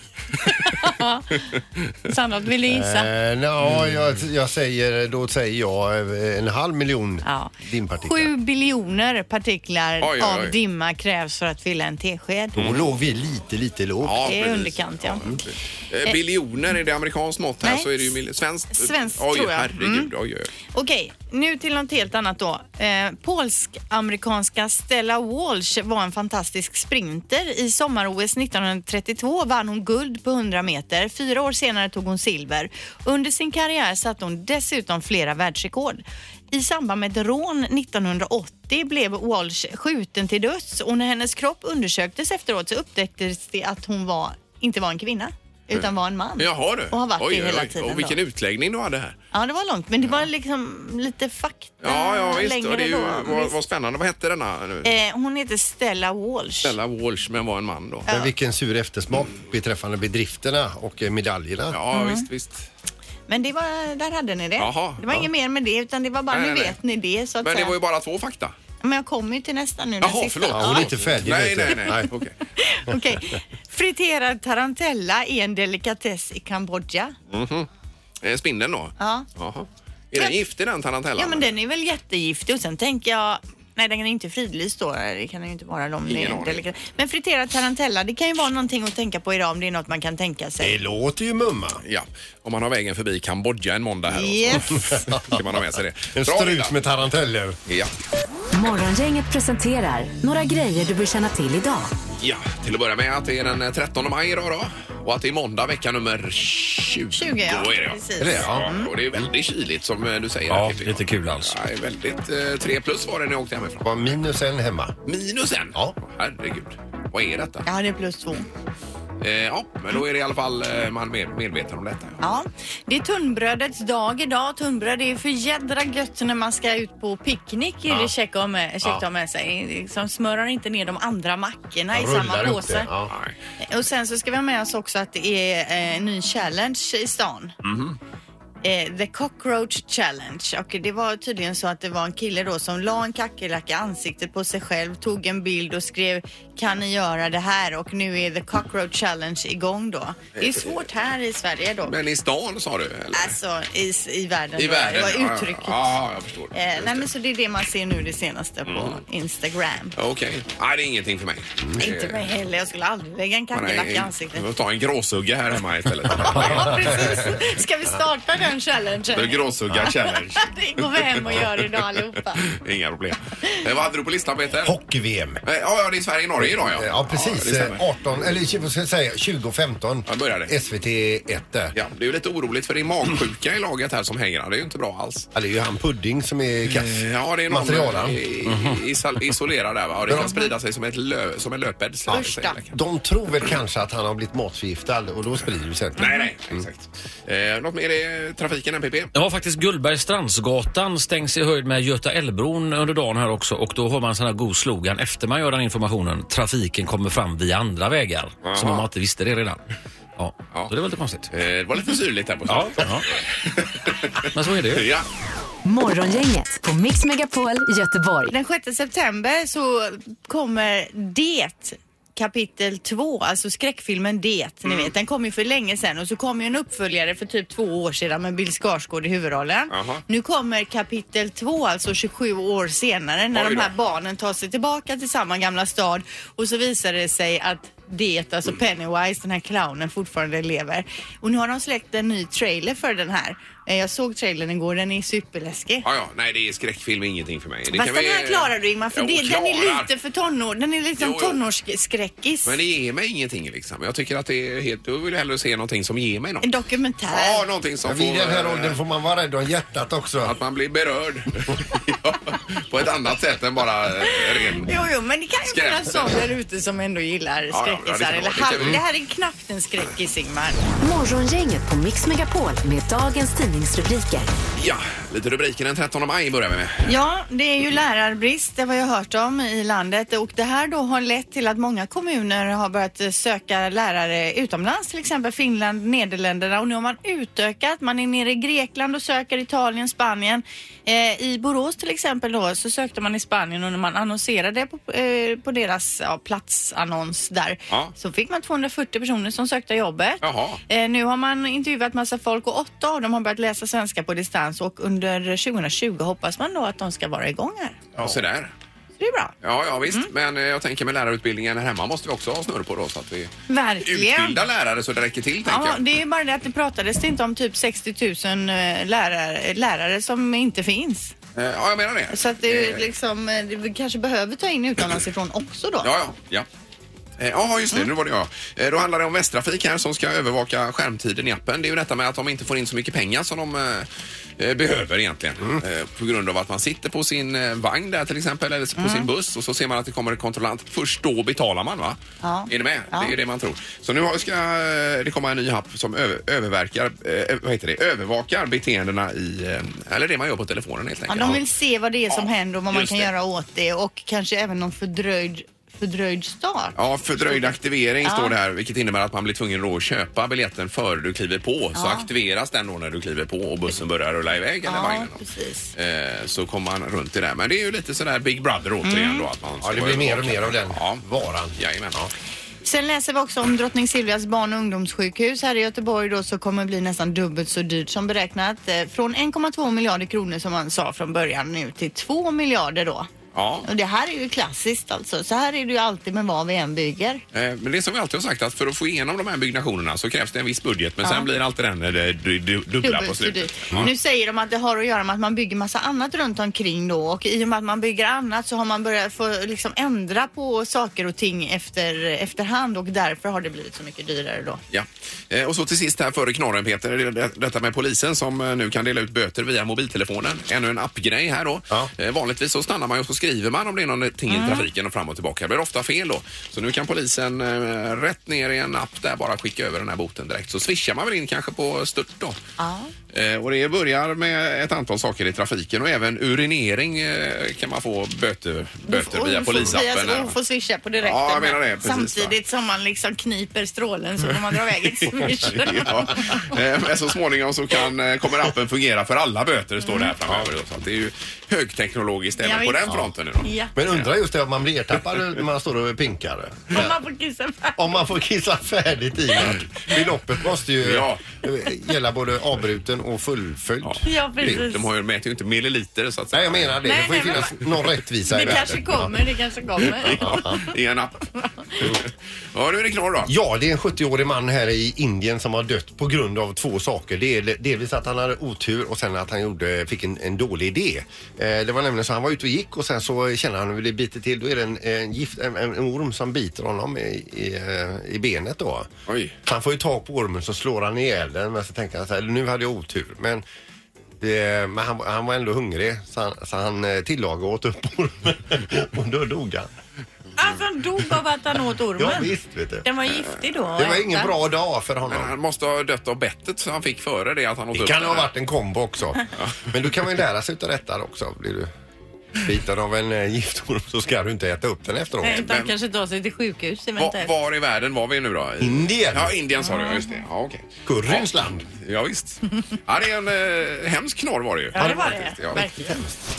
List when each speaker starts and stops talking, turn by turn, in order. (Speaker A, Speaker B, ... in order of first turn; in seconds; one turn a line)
Speaker A: 0.4-0.8
Speaker B: 0.5-1.5
Speaker A: 1.6-1.9
Speaker B: 2.1-3.1
Speaker C: 2.7-8.3
Speaker A: 3.7-4.0
Speaker B: 7.2-12.6
Speaker A: 10.0-10.6
Speaker C: 12.6-14.3
Speaker A: 12.6-12.9
Speaker A: 14.0-20.5
Speaker B: 14.3-15.4
Speaker B: 17.6-18.0
Speaker B: 18.7-20.1
Speaker B: 20.7-48.2
Speaker A: 45.7-49.2
Speaker B: 49.3-53.6
Speaker A: 51.8-54.9
Speaker B: 54.8-56.8
Speaker A: 56.6-58.1
Speaker B: 58.1-58.3
Speaker C: 58.1-61.8
Speaker A: 61.7-62.7
Speaker B: 61.9-62.3
Speaker B: 63.3-67.8
Speaker A: 64.6-65.0
Speaker A: 66.3-66.8
Speaker A: 67.4-68.6
Speaker B: 68.8-70.9
Speaker A: 70.0-72.3
Speaker C: 70.5-72.1
Speaker B: 72.6-77.2
Speaker A: 77.3-77.7
Speaker A: 78.2-81.5
Speaker B: 79.0-79.3
Speaker B: 81.2-90.8
Speaker A: 86.1-86.7
Speaker C: 90.6-91.8
Speaker A: 91.8-96.8
Speaker B: 94.1-94.8
Speaker C: 94.7-95.6
Speaker C: 96.1-97.6
Speaker A: 97.7-97.9
Speaker D: 98.5-101.9
Speaker A: 102.2-114.2
Speaker B: 107.1-109.0
Speaker C: 108.2-108.7
Speaker E: 110.5-111.6
Speaker C: 113.8-115.0
Speaker A: 115.1-117.7
Speaker B: 117.7-118.5
Speaker A: 119.2-122.2
Speaker B: 122.2-132.9
Speaker C: 131.9-133.1
Speaker B: 133.6-137.6
Speaker A: 137.6-138.0
Speaker B: 138.6-151.9
Speaker A: 150.4-150.8
Speaker A: 151.9-153.4
Speaker B: 153.1-156.0
Speaker A: 154.6-157.1
Speaker B: 156.5-160.0
Speaker A: 158.7-159.0
Speaker A: 160.0-162.2
Speaker B: 161.8-164.4
Speaker A: 163.5-166.9
Speaker B: 166.1-172.5
Speaker C: 166.2-167.4
Speaker A: 169.1-171.9
Speaker A: 172.4-174.8
Speaker C: 174.6-175.4
Speaker A: 175.4-177.8
Speaker C: 176.4-181.8
Speaker A: 180.1-180.5
Speaker A: 181.8-185.3
Speaker C: 185.3-188.2
Speaker A: 186.7-192.8
Speaker E: 188.5-188.8
Speaker C: 190.1-190.3
Speaker B: 190.2-190.5
Speaker C: 192.1-196.7
Speaker B: 192.1-192.6
Speaker A: 196.0-199.1
Speaker E: 199.1-209.6
Speaker A: 208.4-208.9
Speaker E: 210.2-211.3
Speaker A: 211.3-215.1
Speaker E: 212.5-213.1
Speaker E: 214.3-214.9
Speaker D: 215.7-218.3
Speaker B: 218.3-245.8
Speaker A: 229.7-230.0
Speaker A: 233.3-233.7
Speaker A: 245.8-249.9
Speaker B: 247.7-252.6
Speaker A: 251.0-251.4
Speaker A: 252.4-256.5
Speaker B: 256.4-257.5
Speaker A: 257.1-258.8
Speaker C: 257.9-260.4
Speaker A: 260.2-264.7
Speaker B: 264.1-270.6
Speaker A: 265.4-266.2
Speaker A: 267.5-268.8
Speaker D: 270.8-274.3
Speaker A: 274.6-276.9
Speaker B: 276.9-307.9
Speaker A: 300.2-300.6
Speaker A: 308.0-308.5
Speaker B: 309.0-309.4
Speaker A: 309.4-313.3
Speaker B: 313.5-314.4
Speaker A: 313.8-315.8
Speaker B: 315.5-321.1
Speaker A: 321.4-322.9
Speaker B: 322.1-325.9
Speaker A: 325.8-326.5
Speaker A: 327.2-351.4
Speaker B: 338.8-339.1
Speaker B: 342.2-343.1
Speaker B: 351.1-356.8
Speaker A: 352.1-353.1
Speaker A: 356.8-365.2
Speaker B: 357.3-358.3
Speaker B: 361.8-362.1
Speaker B: 364.7-365.7
Speaker A: 365.8-371.0
Speaker B: 368.8-369.3
Speaker C: 369.6-372.1
Speaker A: 371.6-372.0
Speaker B: 372.6-383.1
Speaker A: 383.3-383.7
Speaker B: 383.6-387.2
Speaker A: 387.3-393.9
Speaker B: 392.8-404.6
Speaker A: 404.7-422.4
Speaker B: 414.3-414.7
Speaker B: 422.6-422.9
Speaker A: 423.1-430.4
Speaker B: 428.9-436.5
Speaker A: 431.0-432.4
Speaker A: 435.0-444.1
Speaker B: 439.9-440.1
Speaker C: 440.2-440.5
Speaker B: 442.4-442.8
Speaker B: 443.4-443.7
Speaker C: 443.8-447.0
Speaker B: 446.7-448.0
Speaker C: 447.8-454.7
Speaker A: 450.8-451.2
Speaker A: 453.8-456.8
Speaker B: 454.1-454.9
Speaker C: 456.3-459.1
Speaker B: 456.9-457.6
Speaker B: 458.3-460.7
Speaker A: 460.0-461.2
Speaker C: 460.1-460.6
Speaker B: 461.4-461.7
Speaker A: 462.5-463.3
Speaker C: 463.2-478.9
Speaker A: 479.1-479.3
Speaker C: 479.4-483.4
Speaker C: 484.2-489.7
Speaker B: 490.4-492.3
Speaker C: 492.0-492.9
Speaker B: 492.8-494.3
Speaker C: 493.8-495.3
Speaker A: 495.1-498.3
Speaker C: 497.7-501.7
Speaker C: 502.4-505.5
Speaker B: 505.2-507.3
Speaker A: 505.4-505.7
Speaker A: 507.0-515.7
Speaker C: 508.6-509.3
Speaker B: 509.6-510.2
Speaker C: 510.9-511.7
Speaker B: 514.7-516.0
Speaker C: 514.8-515.1